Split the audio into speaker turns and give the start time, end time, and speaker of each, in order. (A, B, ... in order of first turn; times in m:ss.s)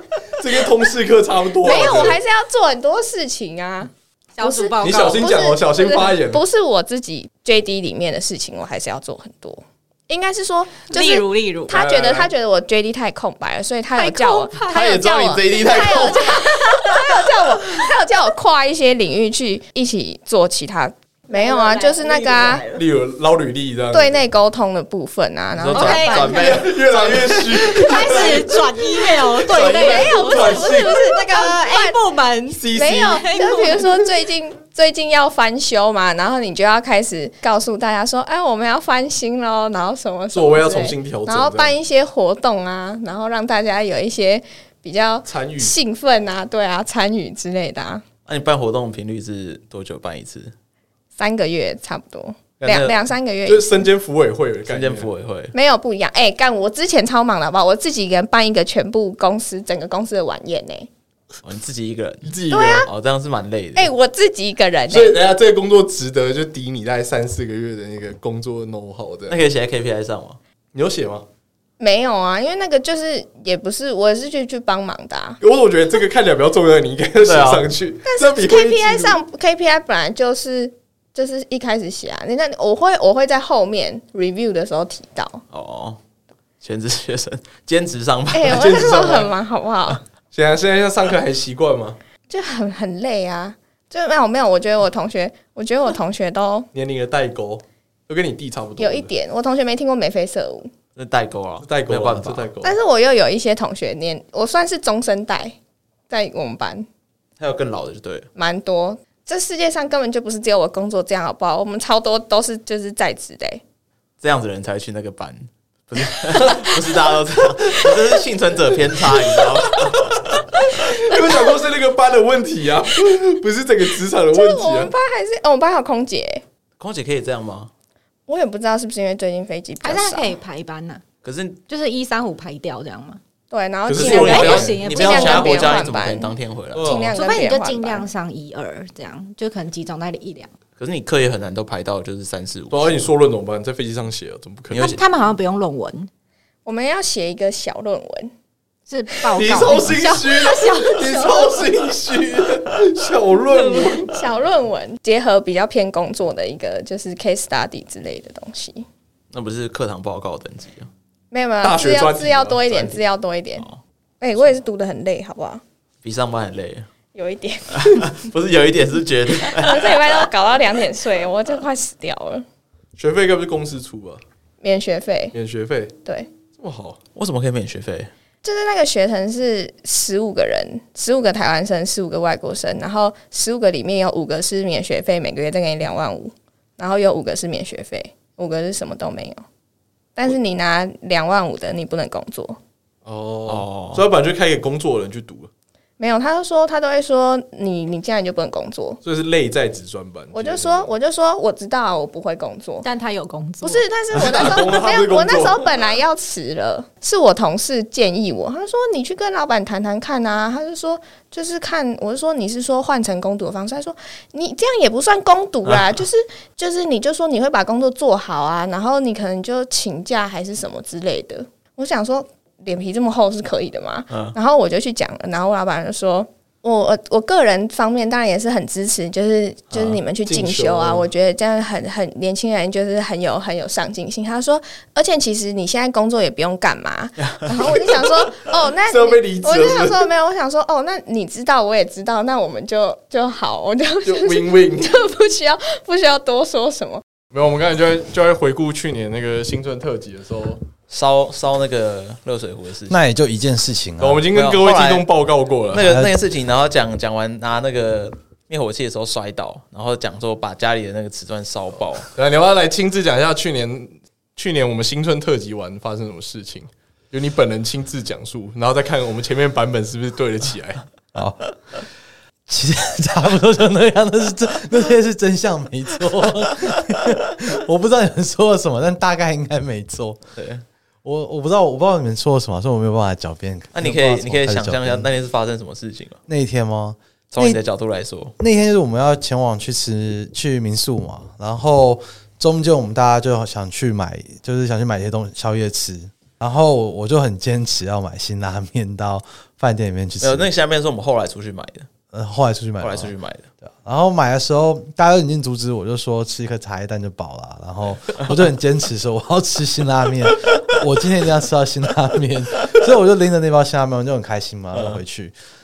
0:00.4-0:02.2 A
0:01.6-0:22.6 B
0:04.4-0:05.4 C
0:04.8-0:06.4 A
0:10.9-0:11.7 C
0:11.7-0:12.3 A
0:14.0-0:15.0 C
0:14.7-0:16.3 D
0:15.6-0:17.8 C
0:21.3-0:22.8 C
0:22.7-0:24.2 A
0:23.9-0:26.7 B
0:25.5-0:27.4 D
0:25.7-0:26.4 C
0:26.2-0:28.6 A
0:27.6-0:34.0 C
0:27.8-0:28.3 B
0:29.5-0:32.0 B
0:29.5-0:30.9 A
0:29.6-0:30.1 D
0:32.5-0:33.2 A
0:32.7-0:48.0 B
0:40.3-0:41.7 A
0:45.2-0:45.7 A
0:48.2-0:50.5 D
0:51.2-0:53.8 B
0:52.6-0:53.0 D
0:53.4-0:55.1 A
0:54.7-0:55.5 D
0:55.5-1:00.9 B
1:01.4-1:03.9 D
1:02.2-1:02.9 A
1:02.5-1:02.9 B
1:03.7-1:05.2 B
1:04.9-1:09.4 A
1:09.3-1:10.4 D
1:10.7-1:11.2 A
1:11.8-1:15.4 B
1:15.4-1:19.2 A
1:17.2-1:17.7 D
1:18.0-1:25.4 B
1:25.5-1:26.0 D
1:26.6-1:28.8 D
1:28.3-1:30.0 B
1:28.5-1:29.3 A
1:30.3-1:32.0 A
1:32.3-1:36.7 B
1:36.7-1:39.1 A
1:38.8-1:40.7 B
1:41.0-1:42.5 D
1:41.6-1:42.8 A
1:42.6-1:45.6 B
1:46.1-1:46.9 B
1:47.4-1:48.3 D
1:48.4-1:53.6 B
1:54.2-2:00.6 D
1:59.9-2:04.9 A
2:00.5-2:01.4 B
2:04.3-2:06.4 B
2:06.8-2:07.7 D
2:08.3-2:10.3 B
2:09.8-2:11.0 C
2:11.2-2:11.6 D
2:11.7-2:13.2 C
2:13.5-2:18.1 B
2:13.9-2:14.8 A
2:13.9-2:17.1 D
2:14.0-2:15.8 C
2:16.7-2:17.1 A
2:17.1-2:20.5 C
2:20.8-2:23.0 D
2:22.7-2:24.8 A
2:24.7-2:25.0 D
2:24.8-2:26.1 C
2:26.6-2:28.3 B
2:28.9-2:31.3 C
2:29.4-2:34.2 A
2:30.7-2:31.6 B
2:33.6-2:38.8 B
2:39.3-2:40.9 D
2:41.3-2:43.7 B
2:41.6-2:42.6 A
2:42.7-2:43.0 D
2:44.2-2:45.6 B
2:46.0-2:46.9 D
2:47.1-2:48.0 B
2:47.7-2:50.0 D
2:49.3-2:52.4 B
2:53.0-2:54.2 A
2:54.6-2:55.3 B
2:55.3-2:55.9 A
2:56.6-2:57.0 A
2:57.1-2:58.1 D
2:58.4-3:09.4 B
3:10.2-3:12.6 B
3:13.0-3:15.5 A
3:13.4-3:14.1 D
3:16.0-3:19.0 B
3:19.0-3:20.9 A
3:20.3-3:22.8 B
3:22.8-3:23.8 C
3:23.6-4:07.0 B
3:24.1-3:25.7 A
3:44.1-3:44.3 D
3:49.7-3:50.0 D
3:50.2-3:51.1 A
3:57.3-3:57.7 D
3:58.9-4:00.0 A
4:04.0-4:04.9 A
4:07.3-4:10.6 A
4:10.9-4:12.9 D
4:12.9-4:14.3 E
4:14.0-4:15.9 A
4:14.3-4:15.1 D
4:15.7-4:22.1 D
4:15.8-4:16.1 E
4:22.1-4:30.8 A
4:31.1-4:31.8 E
4:32.4-4:40.2 E
4:40.4-4:40.6 D
4:41.0-4:45.0 E
4:43.7-4:46.2 D
4:46.3-4:47.6 E
4:47.3-4:48.3 D
4:48.4-5:00.5 E
5:00.2-5:01.9 D
5:02.1-5:03.1 E
5:02.8-5:03.5 D
5:03.8-5:15.3 E
5:14.7-5:15.0 D